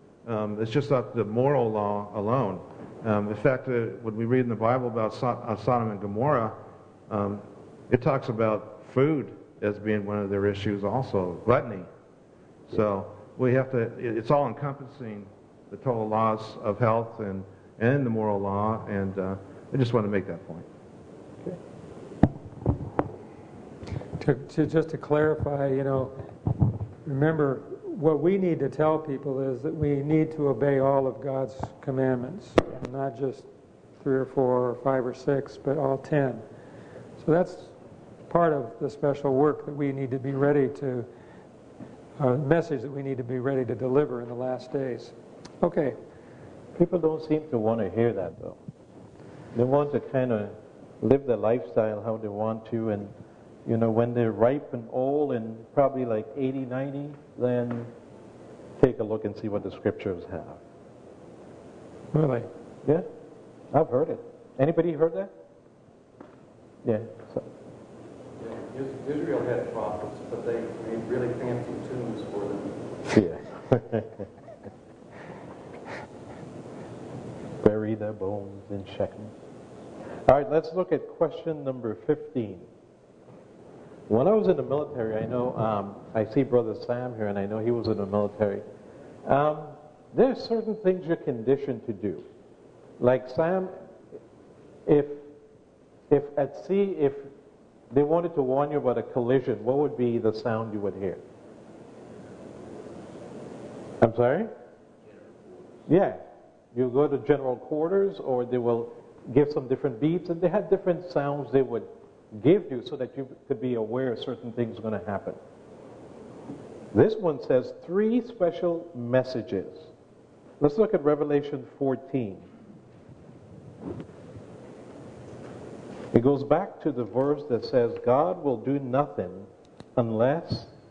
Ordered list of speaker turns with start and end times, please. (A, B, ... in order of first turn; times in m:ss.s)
0:00.3-0:06.6 A
0:07.1-0:11.9 A
0:12.7-0:20.7 A
0:24.2-0:26.2 B
0:27.1-0:33.5 B
0:34.0-0:36.4 B
0:37.2-0:37.7 B
0:38.3-0:41.1 B
0:42.2-0:46.0 B
0:46.8-0:48.6 C
0:49.6-0:53.1 C
0:53.6-0:57.9 C
0:58.8-1:00.6 C
1:02.1-1:02.5 B
1:03.7-1:05.3 C
1:06.8-1:07.5 C
1:08.4-1:12.8 D
1:13.1-1:14.3 C
1:17.6-1:19.3 C
1:20.3-1:22.7 C
1:24.1-1:28.6 C
1:29.2-1:32.2 C
1:33.0-1:33.8 C
1:34.9-1:35.3 C
1:36.1-1:37.3 C
1:37.9-1:41.2 C
1:44.0-1:44.5 C
1:45.9-1:46.2 C
1:46.7-1:55.4 C
1:56.9-1:59.9 C
2:00.6-2:02.4 C
2:06.1-2:10.7 C